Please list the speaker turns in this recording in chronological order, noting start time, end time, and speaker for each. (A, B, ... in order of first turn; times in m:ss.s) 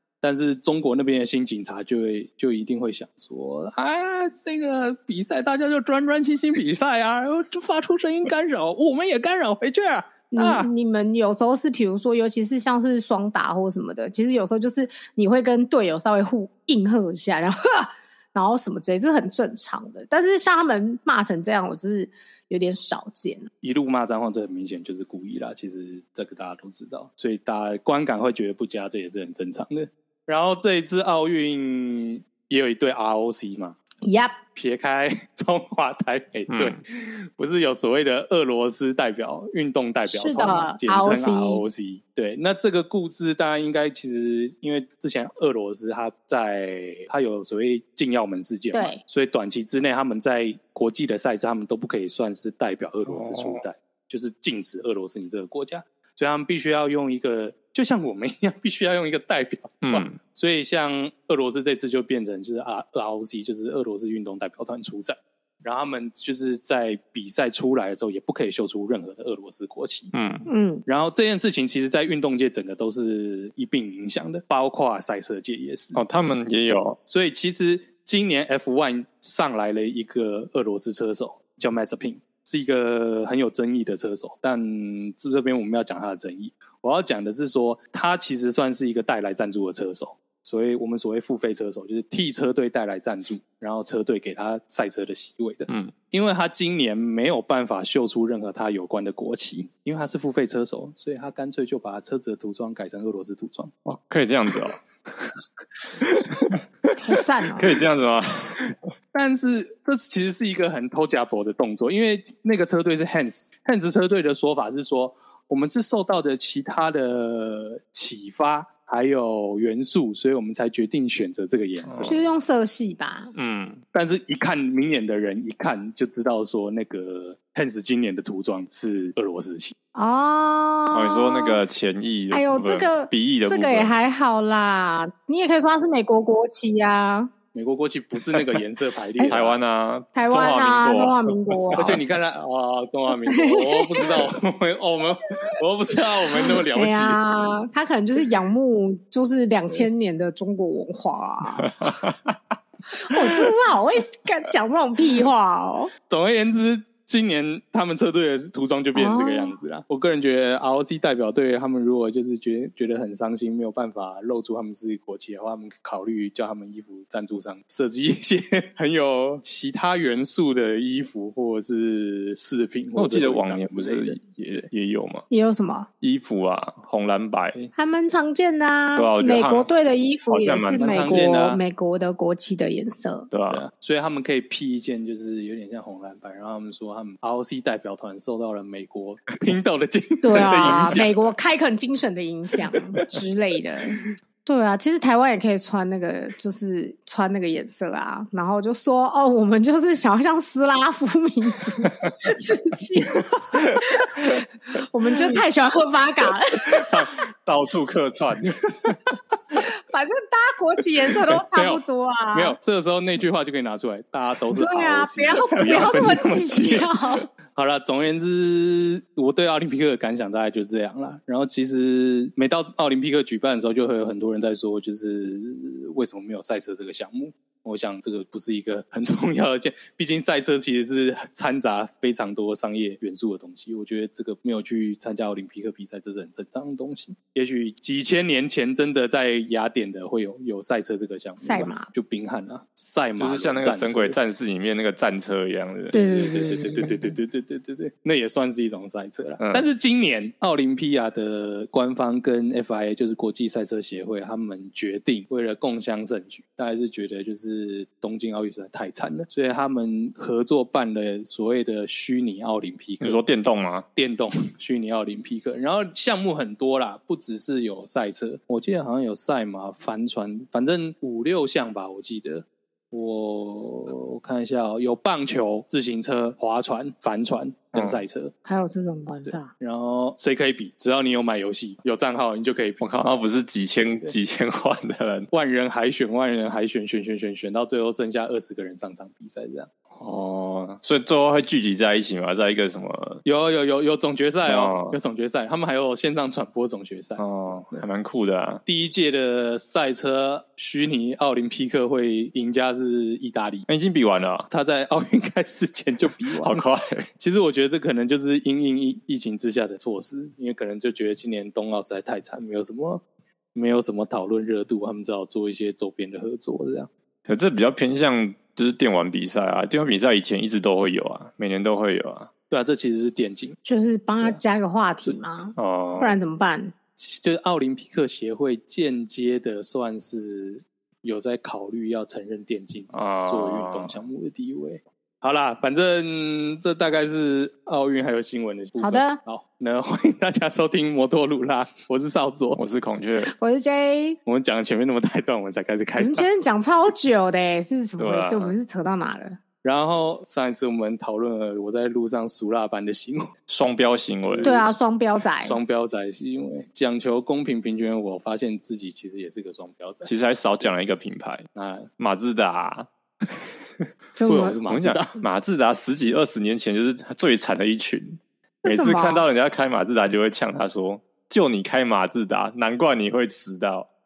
0:00.2-0:10.7 A
0:10.3-0:23.5 B
0:23.6-0:33.8 A
0:34.0-0:34.4 B
0:34.5-1:10.1 A
0:36.5-0:36.8 C
0:40.1-0:41.6 B
0:48.7-0:49.0 B
0:53.1-0:53.6 C
0:59.8-1:00.2 C
1:10.1-1:10.5 C
1:10.5-1:10.8 B
1:10.9-1:16.0 A
1:16.0-1:17.0 C
1:17.1-1:43.7 A
1:35.7-1:35.9 C
1:43.8-1:45.4 C
1:46.3-1:46.9 C
1:47.0-1:47.7 B
1:47.6-1:48.8 C
1:49.1-2:02.2 A
2:01.9-2:02.2 C
2:02.0-2:03.3 B
2:03.4-2:03.8 C
2:03.9-2:09.7 A
2:09.9-2:11.6 B
2:10.9-2:13.9 C
2:12.3-2:17.3 B
2:17.5-2:19.6 A
2:19.3-2:22.0 C
2:20.1-2:22.0 B
2:21.8-2:27.2 A
2:23.3-2:24.3 B
2:26.7-2:31.9 B
2:31.7-2:32.4 C
2:32.9-2:35.9 B
2:36.1-2:54.2 A
2:39.0-2:39.6 B
2:53.0-2:55.3 C
2:55.3-2:55.9 B
2:56.0-2:57.7 C
2:57.8-3:03.3 B
2:59.0-2:59.7 C
3:00.3-3:01.3 C
3:00.8-3:01.6 A
3:03.3-3:03.6 C
3:03.5-3:11.1 A
3:10.2-3:26.9 B
3:26.7-3:28.9 C
3:29.6-3:32.6 B
3:31.5-3:36.9 A
3:34.6-3:37.3 B
3:35.6-3:36.0 C
3:37.5-4:04.2 A
4:01.4-4:01.9 B
4:03.2-4:06.6 C
4:05.9-4:23.2 A
4:05.9-4:06.9 B
4:09.4-4:09.7 C
4:23.0-4:23.9 C
4:24.0-4:38.3 A
4:37.8-4:38.0 C
4:38.4-4:39.5 B
4:39.3-4:42.8 A
4:42.8-4:45.3 C
4:43.9-4:44.2 A
4:45.3-4:49.8 A
4:50.0-4:53.2 C
4:53.2-4:57.8 A
4:54.5-4:55.0 C
4:57.2-4:58.6 C
4:58.7-5:03.7 A
5:03.7-5:04.5 C
5:04.5-5:06.6 A
5:06.4-5:07.1 C
5:07.2-5:13.0 A
5:13.6-5:16.9 A
5:17.3-5:22.3 C
5:22.5-5:23.6 A
5:23.6-5:26.7 B
5:25.6-5:26.2 C
5:27.0-5:42.6 A
5:32.9-5:34.0 C
5:38.8-5:39.2 B
5:42.6-5:43.3 C
5:43.2-5:44.2 B
5:44.3-5:46.3 A
5:46.0-5:49.4 B
5:48.0-5:48.6 C
5:49.6-5:53.3 A
5:53.5-5:54.6 C
5:54.3-5:54.7 A
5:54.4-5:55.6 B
5:55.4-6:00.1 A
6:00.0-6:01.5 C
6:01.5-6:01.9 A
6:02.0-6:02.9 C
6:04.2-6:04.6 B
6:04.2-6:05.2 A
6:04.7-6:13.9 C
6:08.6-6:09.3 B